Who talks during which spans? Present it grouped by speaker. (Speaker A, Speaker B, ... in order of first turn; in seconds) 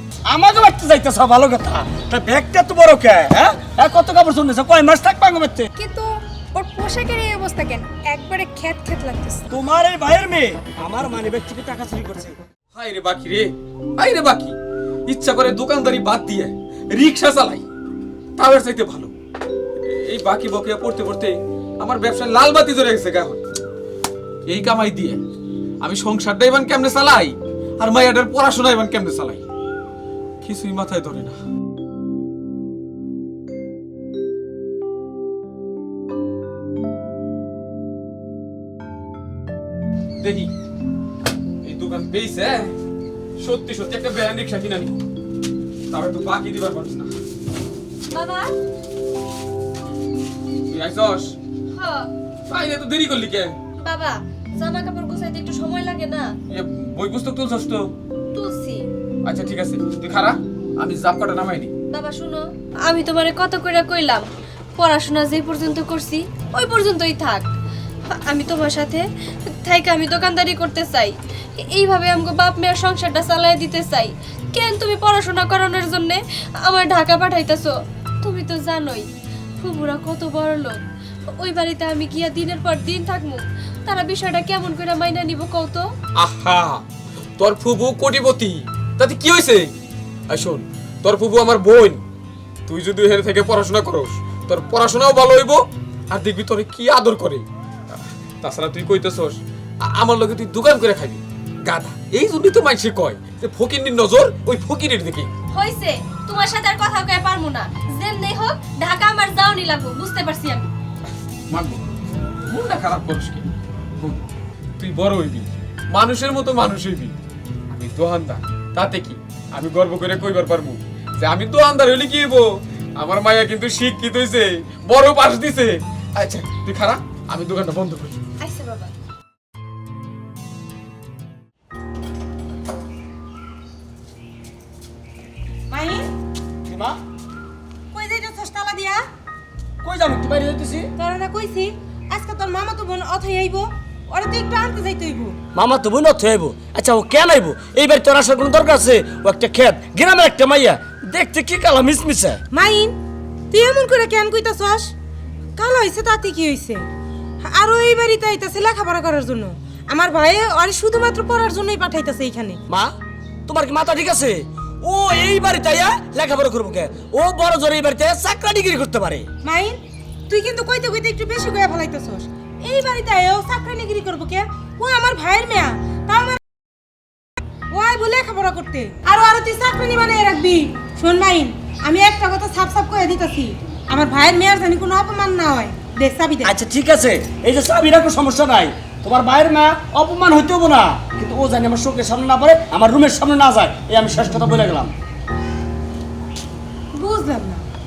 Speaker A: 0.3-5.7, 9.5-12.3, 136.7-137.0, 139.8-140.9, 145.5-152.4, 162.7-162.9, 163.5-169.2, 186.4-194.9
Speaker B: 5.8-9.4
Speaker C: 12.7-14.5, 15.1-17.6, 18.4-19.1, 19.8-23.4, 24.5-25.2, 25.8-29.4, 30.4-31.4, 40.2-40.5, 41.6-42.7, 43.4-44.9, 45.9-47.1, 50.7-51.3, 52.5-53.6, 56.5-57.9, 59.2-61.7, 86.2-86.8, 87.4-89.7, 90.3-92.0, 92.7-97.4, 98.4-105.3, 111.5-111.8, 112.5-113.5, 114.0-114.2, 114.8-117.1, 117.7-128.2
Speaker D: 48.1-48.5, 51.7-52.1, 53.8-56.3, 58.3-58.9, 61.9-64.2, 64.8-67.5, 68.1-79.1, 79.6-80.8, 81.3-85.8, 105.5-110.7, 128.4-128.9
Speaker E: 135.7-136.1, 137.9-139.1, 141.0-145.4, 152.5-153.0, 153.5-154.9, 155.6-156.9, 157.4-162.6, 169.4-176.4, 177.7-186.5, 196.9-197.6